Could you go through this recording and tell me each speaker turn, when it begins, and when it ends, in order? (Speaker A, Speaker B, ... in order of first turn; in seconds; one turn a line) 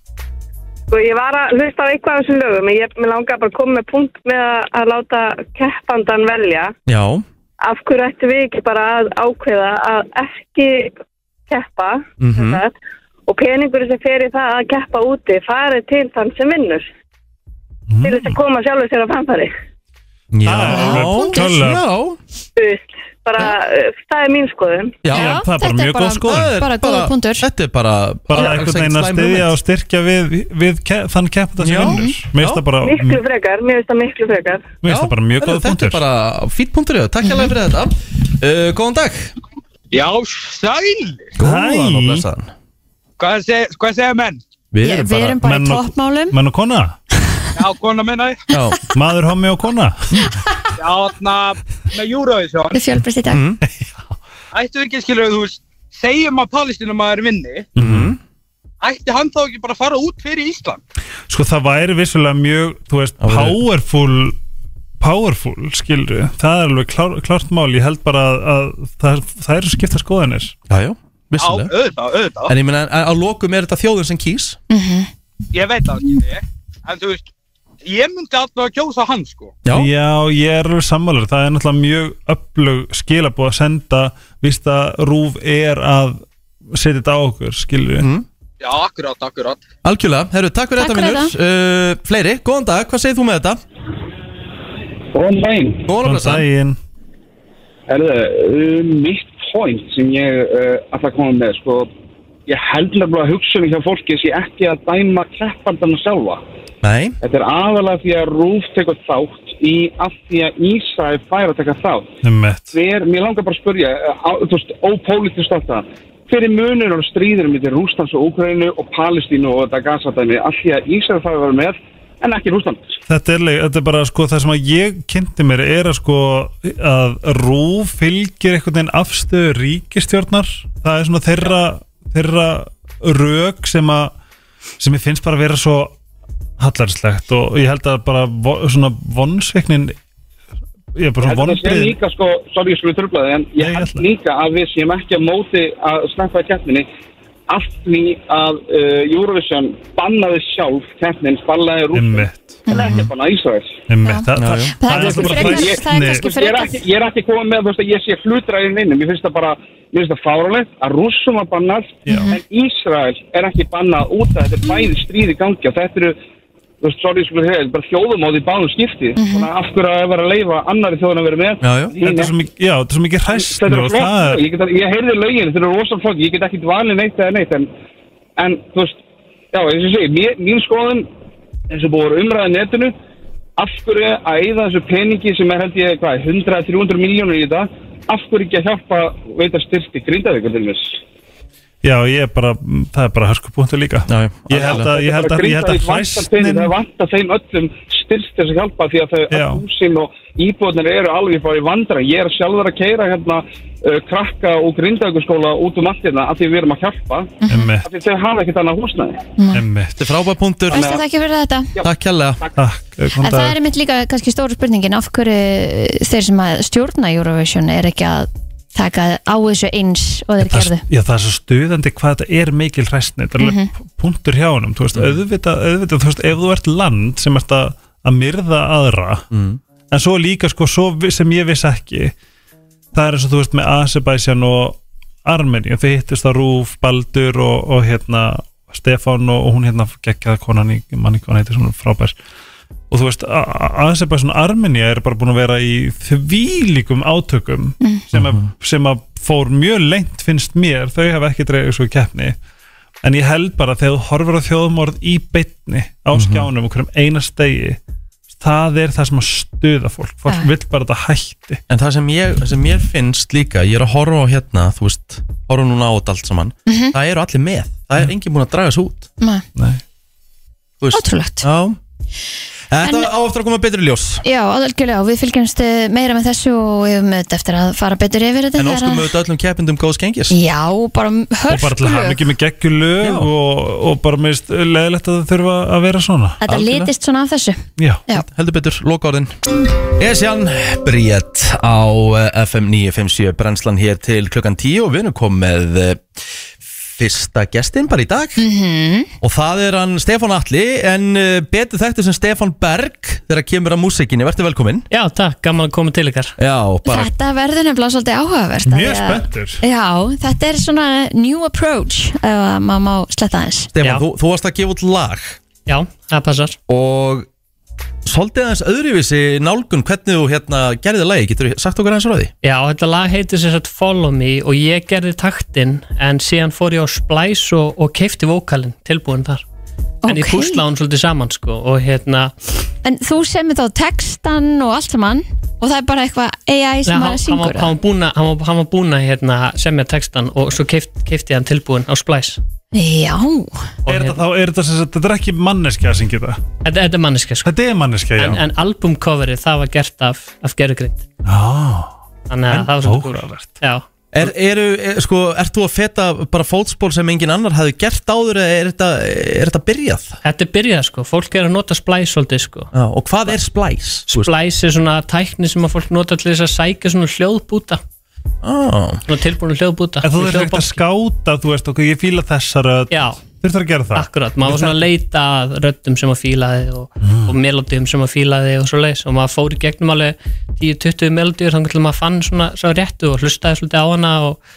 Speaker A: 0.9-6.7
Speaker B: 6.9-7.2
Speaker A: 7.6-10.9
Speaker A: 11.5-12.7
Speaker B: 12.2-12.6
Speaker A: 13.3-16.9
Speaker C: 17.9-18.4
Speaker A: 18.0-19.5
Speaker B: 20.3-22.2
Speaker C: 20.4-21.8
Speaker D: 20.7-21.4
Speaker A: 22.6-25.0
Speaker B: 25.0-25.4
Speaker D: 25.1-27.4
Speaker C: 25.1-26.5
Speaker B: 26.2-29.5
Speaker C: 28.3-33.2
Speaker B: 31.6-32.6
Speaker D: 31.8-32.1
Speaker A: 32.8-34.7
Speaker C: 34.8-36.0
Speaker B: 34.8-39.3
Speaker E: 39.9-41.3
Speaker B: 41.4-42.5
Speaker C: 41.4-42.2
Speaker E: 43.2-44.4
Speaker B: 44.7-45.4
Speaker D: 44.8-46.3
Speaker C: 45.4-47.0
Speaker E: 47.5-48.4
Speaker B: 48.5-48.8
Speaker C: 48.9-50.1
Speaker E: 50.8-52.8
Speaker D: 52.7-53.4
Speaker B: 53.3-53.6
Speaker E: 54.5-57.7
Speaker C: 57.8-58.1
Speaker B: 57.8-58.2
Speaker E: 58.8-60.8
Speaker C: 61.3-64.4
Speaker B: 63.2-63.6
Speaker C: 65.0-70.5
Speaker B: 70.7-71.7
Speaker E: 71.4-72.5
Speaker B: 72.5-74.6
Speaker D: 74.7-75.1
Speaker E: 75.5-77.3
Speaker E: 77.8-79.5
Speaker B: 79.6-79.9
Speaker C: 79.7-86.2
Speaker C: 86.7-88.1
Speaker B: 88.0-88.2
Speaker E: 88.6-89.6
Speaker B: 89.8-93.6
Speaker D: 90.8-91.3
Speaker F: 95.1-95.8
Speaker B: 95.9-96.4
Speaker C: 96.0-96.8
Speaker F: 97.9-101.9
Speaker F: 102.5-106.4
Speaker B: 106.8-107.2
Speaker F: 107.2-112.1
Speaker C: 112.2-112.7
Speaker F: 112.7-122.9
Speaker C: 123.1-134.1
Speaker C: 134.8-135.9
Speaker C: 136.6-139.9
Speaker C: 140.9-141.9
Speaker F: 141.2-146.8
Speaker C: 143.6-144.0
Speaker F: 147.5-153.8
Speaker C: 151.9-152.6
Speaker D: 152.7-153.0
Speaker B: 152.7-153.1
Speaker C: 153.9-156.3
Speaker D: 154.0-156.8
Speaker B: 154.3-155.0
Speaker F: 155.1-166.2
Speaker C: 162.1-162.3
Speaker D: 162.1-162.4
Speaker F: 166.8-172.3
Speaker D: 169.2-169.5
Speaker B: 171.6-171.9
Speaker C: 172.0-174.4
Speaker F: 173.3-177.7
Speaker F: 178.4-179.0
Speaker F: 179.5-181.1
Speaker F: 181.7-182.9
Speaker F: 183.6-191.0
Speaker C: 191.8-196.7
Speaker B: 194.1-194.9
Speaker F: 194.6-207.3
Speaker C: 199.3-199.6
Speaker D: 207.4-207.7
Speaker C: 207.5-207.9
Speaker F: 207.8-209.2
Speaker D: 209.4-209.6
Speaker C: 209.5-210.0
Speaker B: 210.0-211.0
Speaker D: 210.7-211.7
Speaker F: 210.7-211.0
Speaker B: 211.8-212.4
Speaker C: 212.6-213.6
Speaker D: 213.2-220.8
Speaker C: 220.4-229.2
Speaker D: 223.4-223.7
Speaker B: 224.9-225.2
Speaker B: 229.3-229.6
Speaker C: 229.9-232.1
Speaker C: 232.9-242.1
Speaker C: 242.9-252.3
Speaker B: 248.1-248.4
Speaker C: 253.0-257.8
Speaker B: 256.1-256.5
Speaker C: 258.4-261.6
Speaker B: 261.7-269.1
Speaker D: 266.7-266.9
Speaker B: 270.8-271.8
Speaker D: 270.9-271.5
Speaker B: 272.7-274.2
Speaker D: 272.8-273.1
Speaker D: 274.2-279.1
Speaker B: 278.6-280.3
Speaker D: 280.3-282.2
Speaker C: 281.5-286.4
Speaker B: 283.0-283.3
Speaker D: 286.4-288.2
Speaker B: 286.5-286.9
Speaker C: 287.8-288.0
Speaker B: 288.1-289.3
Speaker B: 289.9-296.0
Speaker B: 296.9-298.4
Speaker D: 298.4-299.1
Speaker B: 299.2-304.9
Speaker G: 304.9-306.3
Speaker B: 306.4-307.1
Speaker D: 306.9-313.7
Speaker C: 308.6-309.6
Speaker B: 313.7-315.4
Speaker G: 315.6-316.6
Speaker B: 316.7-317.3
Speaker B: 318.1-322.3
Speaker G: 322.4-329.4
Speaker D: 330.0-330.6
Speaker G: 330.0-332.4
Speaker D: 332.8-337.7
Speaker G: 336.9-342.4
Speaker D: 342.7-343.7
Speaker G: 343.8-344.2
Speaker C: 343.9-346.4
Speaker G: 346.6-347.5
Speaker C: 347.4-348.4
Speaker G: 348.2-351.1
Speaker C: 351.2-351.9
Speaker G: 352.3-353.9
Speaker C: 352.5-353.6
Speaker B: 354.1-360.1
Speaker G: 360.2-362.7
Speaker B: 362.7-364.3
Speaker G: 364.1-367.8
Speaker B: 368.4-369.0
Speaker G: 369.1-370.8
Speaker C: 370.0-374.9
Speaker G: 372.9-373.2
Speaker G: 373.9-384.4
Speaker C: 377.0-377.3